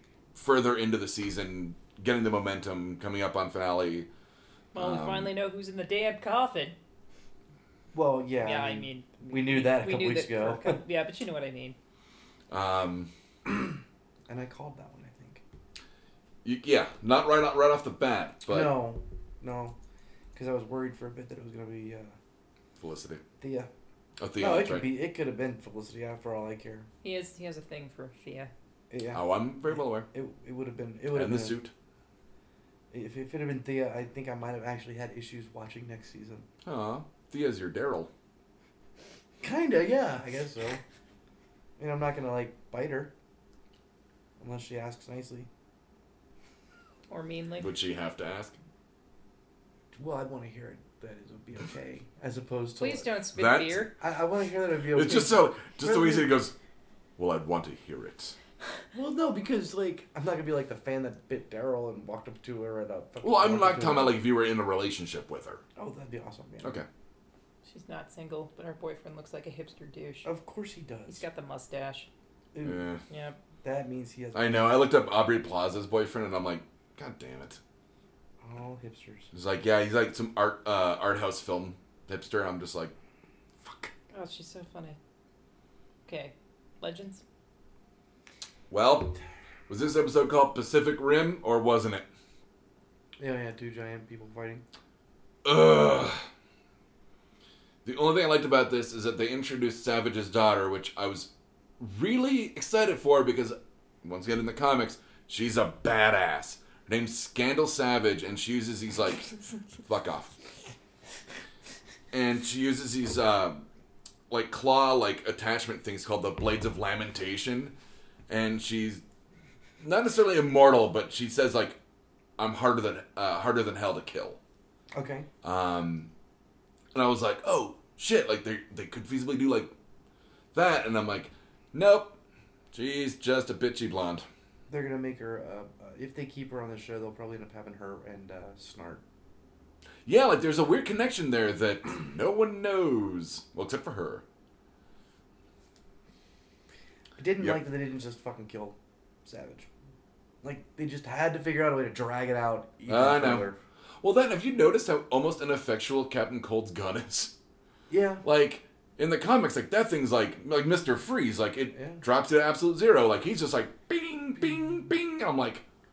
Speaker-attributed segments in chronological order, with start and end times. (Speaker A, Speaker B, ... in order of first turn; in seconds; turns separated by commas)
Speaker A: 0.3-4.1, Speaker B: 4.7-6.8, Speaker A: 4.8-5.3, Speaker C: 7.9-10.8, Speaker B: 8.4-11.8, Speaker A: 12.5-13.1, Speaker C: 14.3-15.4, Speaker A: 16.4-18.8, Speaker C: 18.5-19.8, Speaker C: 20.3-22.2, Speaker A: 22.8-23.2, Speaker C: 23.4-23.7, Speaker A: 24.2-24.9, Speaker C: 24.4-26.9, Speaker B: 27.0-28.5, Speaker C: 28.9-31.6, Speaker A: 29.1-30.1, Speaker A: 31.1-31.7, Speaker C: 32.9-36.5, Speaker A: 36.6-38.1, Speaker C: 39.4-40.8, Speaker C: 41.8-43.1, Speaker C: 44.4-45.5, Speaker B: 47.1-47.7, Speaker A: 47.6-48.6, Speaker C: 49.9-53.1, Speaker B: 52.8-53.9, Speaker A: 53.4-53.9, Speaker C: 54.0-56.3, Speaker A: 54.9-56.5, Speaker A: 57.2-58.4, Speaker C: 58.9-64.2, Speaker A: 63.2-65.6, Speaker C: 65.8-66.8, Speaker B: 67.7-70.3, Speaker C: 70.2-71.2, Speaker B: 71.1-72.1, Speaker C: 72.5-72.8, Speaker A: 72.6-73.0, Speaker B: 73.1-73.4, Speaker C: 73.6-74.8, Speaker A: 74.3-77.6, Speaker C: 78.4-79.3, Speaker A: 79.3-82.9, Speaker A: 83.6-83.9, Speaker B: 84.1-85.0, Speaker B: 86.1-87.2, Speaker A: 88.7-89.2, Speaker A: 89.7-92.0, Speaker C: 93.2-94.6, Speaker A: 95.5-96.2, Speaker A: 97.8-110.3, Speaker A: 112.1-113.7, Speaker A: 114.3-117.7, Speaker A: 118.3-119.0, Speaker A: 119.8-121.8, Speaker A: 122.4-124.4, Speaker C: 124.9-125.3, Speaker A: 125.4-126.1, Speaker A: 126.9-129.7, Speaker A: 130.5-132.2, Speaker A: 132.7-134.3, Speaker C: 134.7-139.0, Speaker A: 140.1-144.2, Speaker C: 147.2-149.7, Speaker C: 150.4-153.6, Speaker A: 152.9-153.5, Speaker A: 154.0-157.3, Speaker C: 157.9-158.2, Speaker A: 158.2-165.6, Speaker C: 161.7-162.0